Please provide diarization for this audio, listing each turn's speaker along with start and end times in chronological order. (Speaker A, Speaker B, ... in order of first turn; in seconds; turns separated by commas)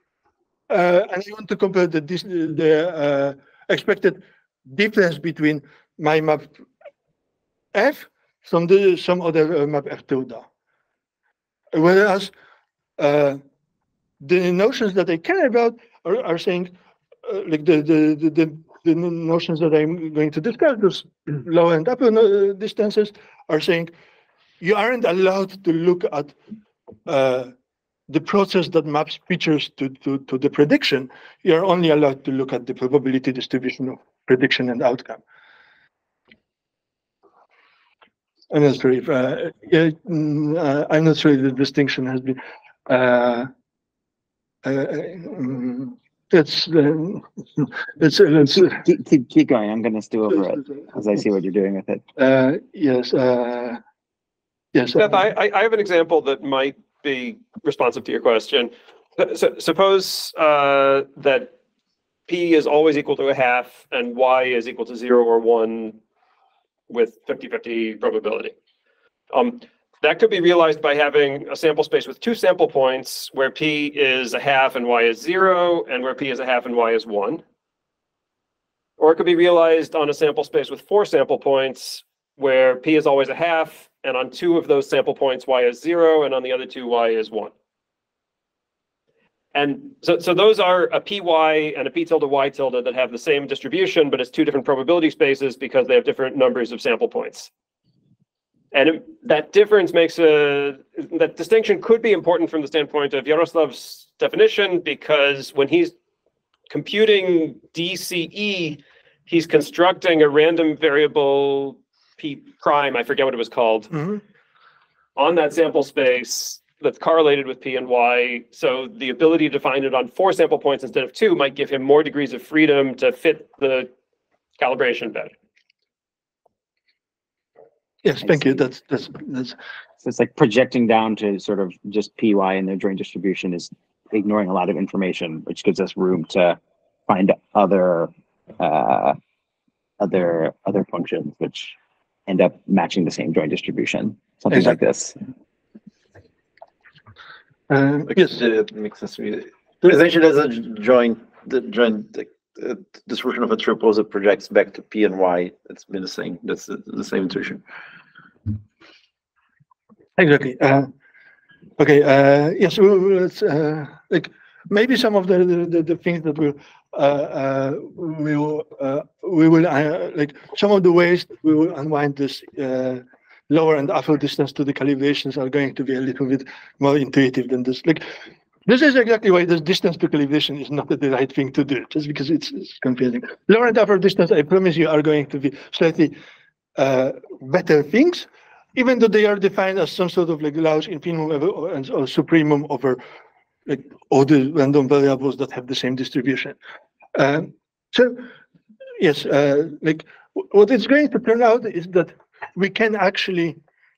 Speaker A: 0.7-6.5, Speaker A: 7.7-10.5, Speaker A: 11.7-12.3, Speaker A: 13.0-13.4, Speaker A: 14.2-16.7, Speaker A: 17.2-23.9, Speaker A: 24.6-26.4, Speaker A: 27.1-27.5, Speaker A: 28.1-35.2, Speaker A: 38.5-43.5, Speaker A: 44.6-48.8, Speaker B: 48.7-52.0, Speaker A: 52.2-53.8, Speaker A: 54.7-55.2, Speaker C: 55.0-61.5, Speaker C: 62.3-66.0, Speaker C: 66.9-68.5, Speaker C: 69.3-77.4, Speaker C: 79.0-87.5, Speaker C: 89.5-97.5, Speaker C: 98.7-105.9, Speaker C: 106.7-114.1, Speaker A: 113.9-114.2, Speaker C: 115.2-123.9, Speaker C: 124.6-125.3, Speaker A: 128.0-129.6, Speaker B: 130.0-139.2, Speaker B: 140.0-141.8, Speaker B: 142.3-145.2, Speaker A: 144.5-144.8, Speaker A: 147.7-148.4, Speaker D: 148.1-157.6, Speaker A: 160.2-160.9, Speaker A: 161.8-178.1, Speaker A: 178.7-186.2, Speaker A: 186.8-193.0, Speaker A: 193.7-196.6, Speaker A: 197.2-198.3, Speaker A: 199.0-203.6